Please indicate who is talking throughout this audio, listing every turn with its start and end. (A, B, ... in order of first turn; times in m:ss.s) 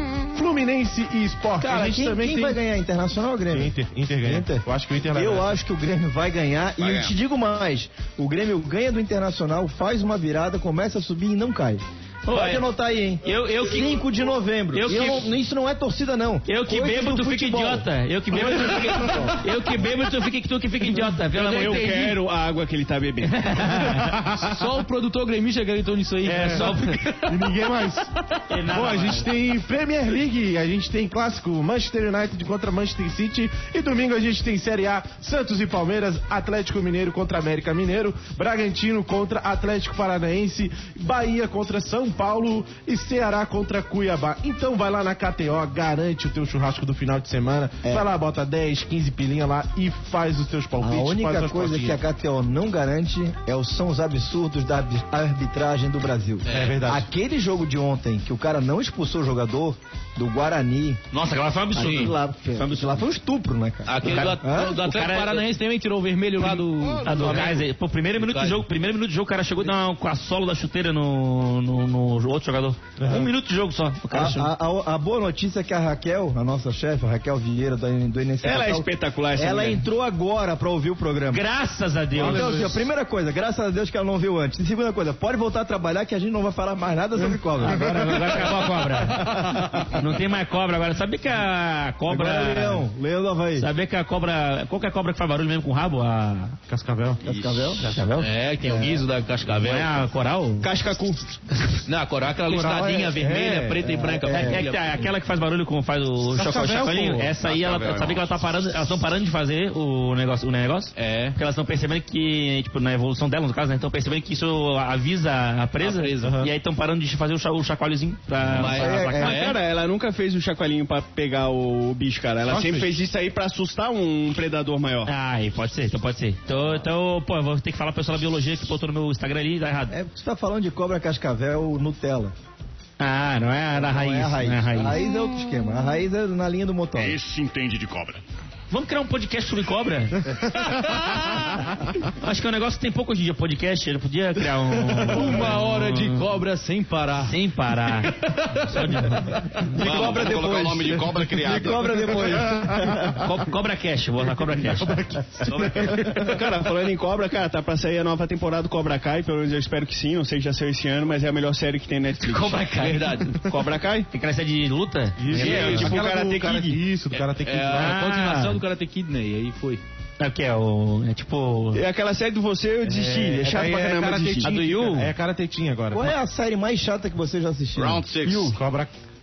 0:00.3-0:02.6 A
0:01.6-0:17.9 B
0:03.5-0:05.6 A
0:06.8-0:07.1 C
0:12.2-0:12.6 D
0:13.2-0:14.0 D
0:14.7-0:15.3 D
0:16.4-0:22.1 D
0:18.3-0:19.4 A
0:21.3-0:23.6 E
0:23.3-0:24.1 D
0:24.1-0:24.4 A
0:24.4-0:27.3 F
0:26.2-0:27.1 D
0:27.2-0:28.1 A
0:28.5-0:29.3 D
0:28.6-0:52.0 A
0:50.8-1:01.0 B
0:56.4-0:56.9 F
0:56.5-0:57.0 A
1:01.1-1:03.0 D
1:01.7-1:04.8 B
1:03.9-1:08.6 F
1:04.0-1:05.4 D
1:06.8-1:07.6 C
1:07.0-1:14.5 D
1:13.0-1:13.3 A
1:14.1-1:21.4 B
1:18.4-1:19.8 E
1:21.3-1:22.7 D
1:22.1-1:22.8 A
1:22.2-1:28.4 B
1:27.6-1:32.9 D
1:29.4-1:29.8 A
1:32.1-1:33.7 B
1:33.6-1:36.6 D
1:36.7-1:37.2 A
1:37.2-1:37.9 B
1:37.3-1:37.6 C
1:37.8-1:38.3 D
1:38.2-1:40.0 F
1:39.5-1:40.7 D
1:40.6-1:41.2 E
1:41.9-1:45.1 F
1:42.4-1:43.9 A
1:43.8-1:44.6 B
1:44.3-1:59.5 D
1:46.3-1:47.4 A
1:47.4-1:48.4 C
1:50.9-1:51.4 F
1:55.8-1:56.4 F
1:56.2-1:56.5 A
1:58.5-1:59.6 F
1:58.7-2:05.1 E
2:02.5-2:02.9 A
2:05.0-2:09.9 D
2:09.9-2:12.3 B
2:13.0-2:15.0 D
2:13.7-2:17.2 B
2:17.0-2:18.2 C
2:18.7-2:20.4 D
2:20.3-2:20.7 A
2:22.0-2:26.2 D
2:25.1-2:27.3 F
2:27.2-2:29.8 D
2:29.7-2:33.3 B
2:29.8-2:32.1 C
2:32.0-2:33.2 A
2:33.2-2:36.1 D
2:34.4-2:36.4 A
2:36.0-2:42.7 E
2:42.2-2:43.4 D
2:42.7-2:43.3 F
2:43.4-2:44.1 E
2:44.1-2:46.0 D
2:45.2-2:48.0 A
2:45.3-2:46.0 F
2:45.4-2:46.8 E
2:47.1-2:49.8 F
2:47.7-2:48.6 D
2:50.2-2:51.8 D
2:51.7-2:54.5 E
2:52.8-2:56.1 A
2:54.4-2:55.1 D
2:55.9-2:58.6 B
2:57.8-2:58.6 C
2:58.4-2:58.9 A